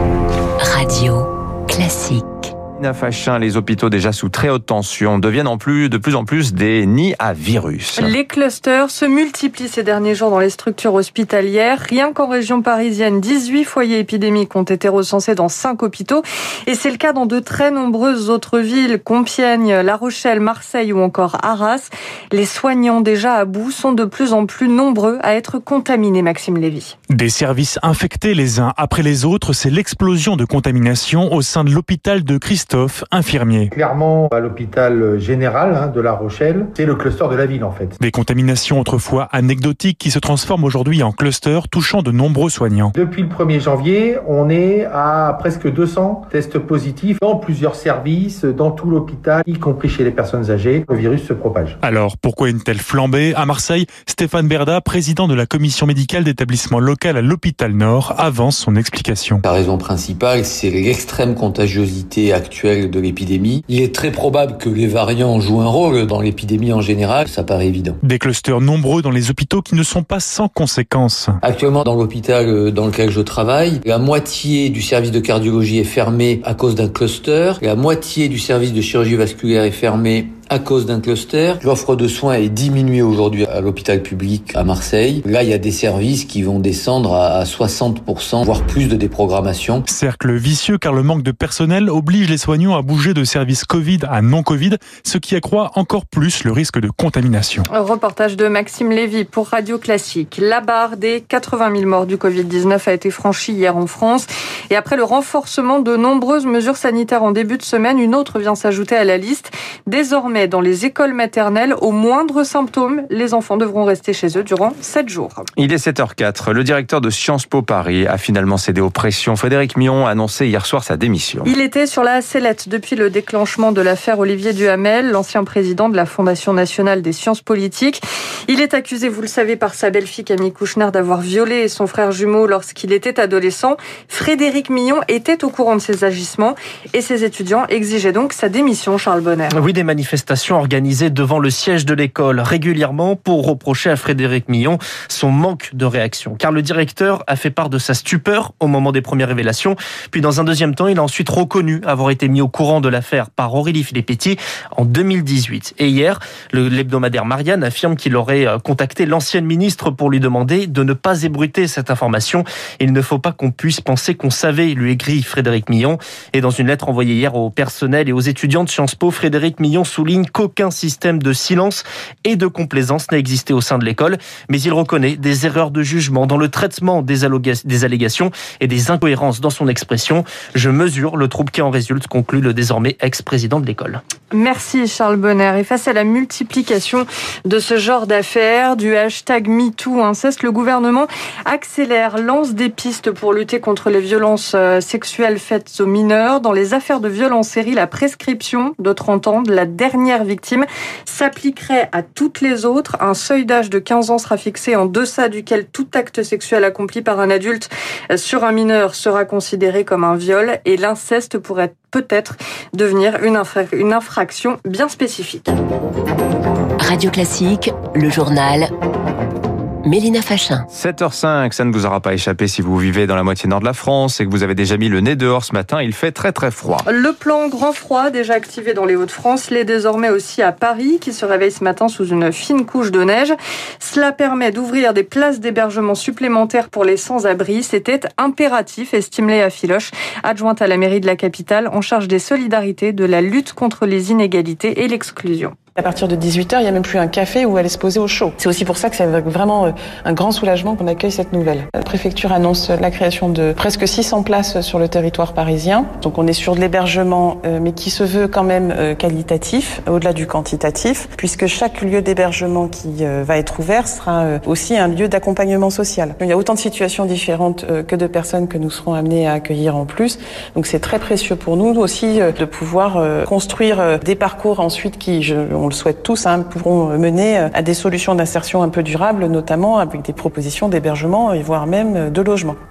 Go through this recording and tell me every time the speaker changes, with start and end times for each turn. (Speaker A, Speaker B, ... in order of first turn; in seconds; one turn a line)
Speaker A: 0.6-2.5
Speaker B: 2.7-8.1
Speaker C: 8.0-26.9
Speaker D: 27.1-33.7
Speaker E: 33.7-38.0
Speaker D: 38.0-42.9
Speaker E: 42.9-51.8
Speaker D: 51.8-59.4
Speaker F: 59.5-68.0
Speaker D: 68.0-71.3
Speaker F: 71.4-89.8
Speaker D: 89.9-97.7
Speaker C: 97.7-115.4
Speaker B: 115.6-121.5
Speaker C: 121.4-139.5
Speaker G: 139.5-184.0
Speaker C: 184.3-215.6
Speaker A: 216.8-218.7
Speaker A: 219.8-220.7
Speaker B: 220.7-226.8
Speaker C: 226.8-245.5
Speaker H: 245.8-282.6